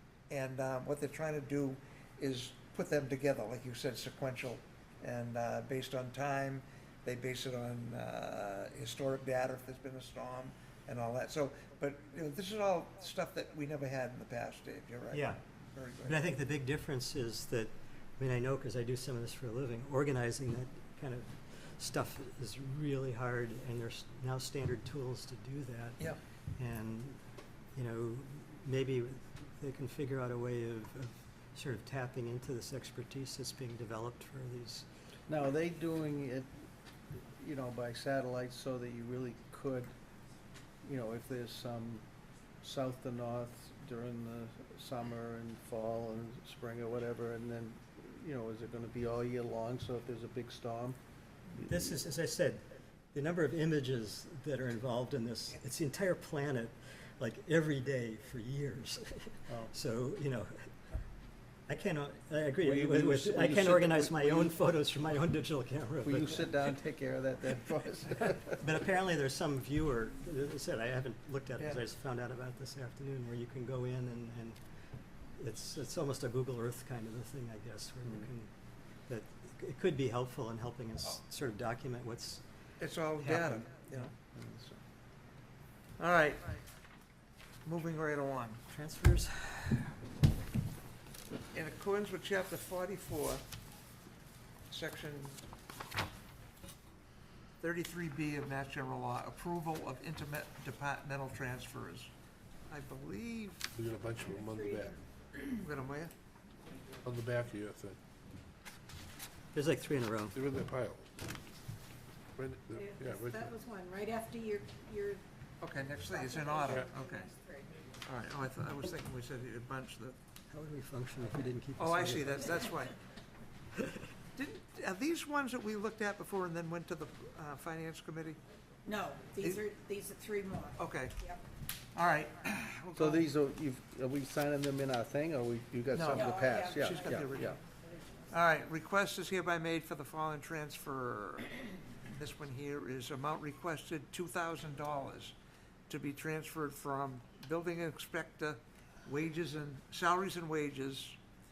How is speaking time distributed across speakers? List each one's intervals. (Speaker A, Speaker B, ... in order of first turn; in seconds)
Speaker A: 0.3-16.2, 82.8-84.1, 86.0-86.6, 87.6-88.6, 91.5-93.4, 94.7-95.4, 97.6-102.1, 102.7-103.7, 105.5-106.1, 115.6-117.3, 118.0-120.2, 121.8-122.9, 124.3-128.4, 130.8-131.2, 131.9-133.2, 135.9-137.5, 138.3-145.3, 145.9-151.2
Speaker B: 15.1-15.4, 16.0-27.2, 27.7-34.9, 51.5-52.6, 53.1-60.7, 61.7-66.6, 68.6-74.6, 75.4-78.5, 79.1-82.4, 83.2-84.1, 88.7-89.8, 109.5-110.4, 120.5-122.8
Speaker C: 35.3-36.5, 37.4-39.9, 40.8-42.0, 42.6-51.0, 62.6-64.5, 66.0-68.5, 84.2-84.8, 132.9-137.6
Speaker D: 103.7-105.0, 107.0-108.0, 110.3-111.2, 112.3-113.5
Speaker E: 104.2-105.0, 112.8-115.2, 116.1-117.8, 128.8-131.4, 136.1-137.6